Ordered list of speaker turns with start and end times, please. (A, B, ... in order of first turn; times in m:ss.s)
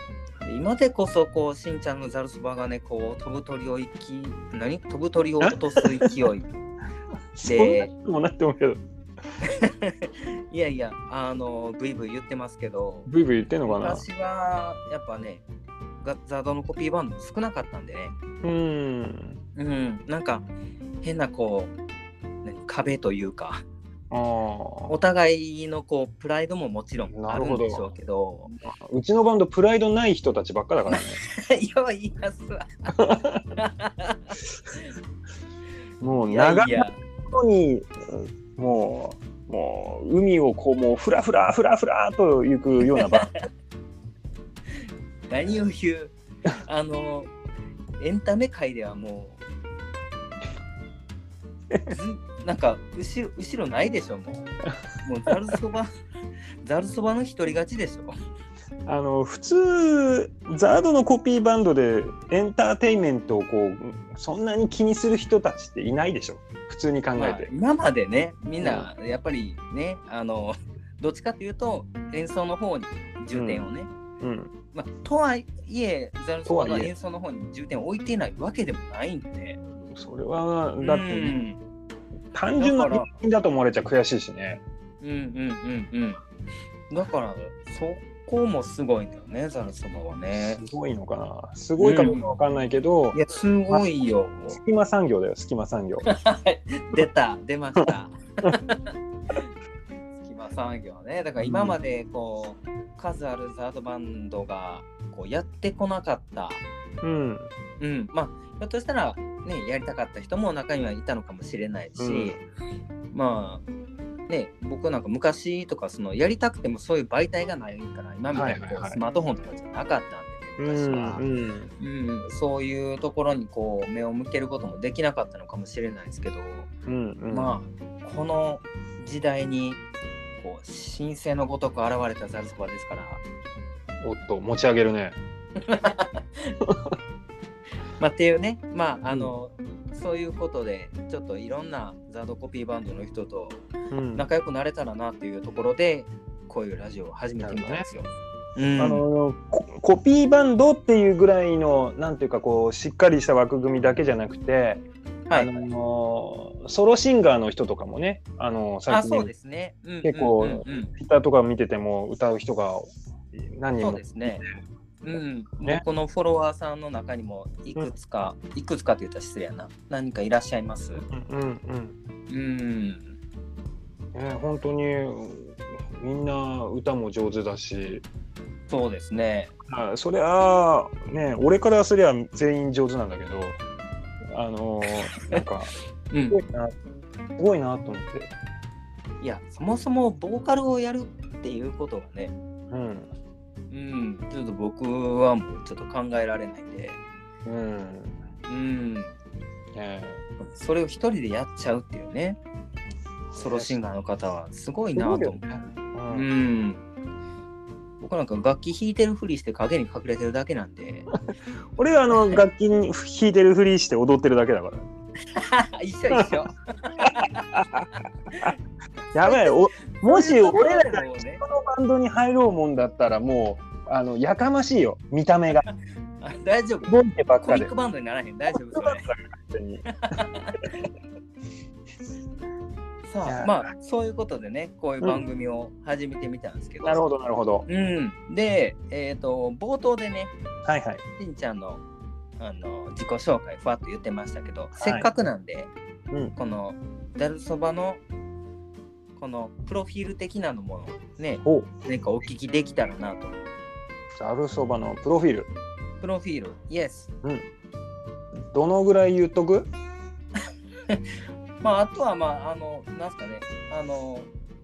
0:00.4-0:06.5 A
0:05.4-0:06.1 B
0:07.3-0:08.8 B
0:07.4-0:07.9 A
0:09.4-0:13.1 A
0:13.1-0:14.0 B
0:13.6-0:15.4 A
0:16.0-0:18.1 A
0:18.4-0:19.4 B
0:19.6-0:20.5 A
0:21.0-0:21.7 A
0:22.4-0:23.6 A
0:24.1-0:24.9 B
0:24.9-0:28.5 A
0:27.1-0:27.8 B
0:28.6-0:31.2 B
0:30.9-0:33.0 A
0:33.0-0:33.4 B
0:33.6-0:34.9 A
0:36.0-0:43.3 B
0:36.3-0:37.0 A
0:42.8-0:43.4 A
0:45.3-0:47.3 A
0:48.0-0:49.4 A
0:51.9-0:54.5 A
0:55.0-0:55.9 A
0:56.6-0:58.1 A
0:58.9-1:07.5 B
1:07.2-1:13.9 A
1:08.6-1:08.9 B
1:13.3-1:13.7 B
1:14.2-1:14.5 B
1:14.7-1:19.6 A
1:16.4-1:16.9 B
1:19.6-1:21.4 B
1:20.8-1:21.6 A
1:22.3-1:24.6 B
1:22.6-1:23.1 A
1:25.0-1:26.2 A
1:26.9-1:30.6 A
1:30.4-1:33.2 B
1:31.8-1:32.3 A
1:33.1-1:34.6 A
1:34.5-1:36.0 B
1:36.0-1:39.5 A
1:40.2-1:46.6 A
1:41.4-1:41.8 B
1:47.0-1:47.5 B
1:47.8-1:52.4 A
1:52.0-1:52.3 B
1:53.1-1:53.6 A
1:54.3-2:01.2 A
1:58.3-1:59.0 B
2:00.6-2:01.7 B
2:01.8-2:06.7 A
2:06.9-2:07.6 B
2:07.3-2:09.8 A
2:10.4-2:13.2 A
2:14.0-2:15.2 B
2:15.6-2:16.5 A
2:16.6-2:16.9 B
2:18.0-2:29.0 A
2:23.9-2:24.2 B
2:27.4-2:27.9 B
2:28.8-2:39.3 B
2:35.3-2:35.6 A
2:38.9-2:40.9 A
2:40.0-2:44.5 B
2:43.8-2:44.4 A
2:45.0-2:51.0 A
2:51.0-2:52.0 B
2:52.3-2:53.1 A
2:54.1-2:58.0 B
2:58.7-2:59.5 A
2:59.7-3:03.6 B
3:04.3-3:05.7 B
3:05.1-3:05.4 A
3:06.1-3:06.4 A
3:06.3-3:06.7 B
3:07.4-3:08.3 B
3:09.2-3:12.3 A
3:12.7-3:13.1 B
3:13.7-3:17.0 A
3:17.4-3:18.2 B
3:18.5-3:19.1 A
3:19.7-3:20.2 B
3:20.5-3:22.4 A
3:23.3-3:23.8 B
3:23.4-3:25.5 A
3:24.9-3:26.3 B
3:26.1-3:26.8 A
3:28.0-3:31.1 A
3:31.8-3:34.9 B
3:35.3-3:38.6 A
3:37.0-3:37.9 B
3:39.1-3:45.6 B
3:39.2-3:41.4 A
3:46.2-3:49.1 A
3:46.9-3:47.7 B
3:48.5-3:49.8 B
3:50.0-3:50.9 A
3:53.0-3:57.0 A
3:53.2-3:53.7 B
3:56.8-3:57.6 B
3:57.7-4:00.3 A
4:00.6-4:01.0 B
4:01.2-4:01.8 A
4:02.4-4:05.7 A
4:04.8-4:05.1 B
4:06.4-4:08.0 A
4:09.2-4:13.4 A
4:11.4-4:11.7 B
4:14.2-4:15.5 B
4:16.0-4:17.1 A
4:18.4-4:19.7 B
4:21.6-4:24.3 A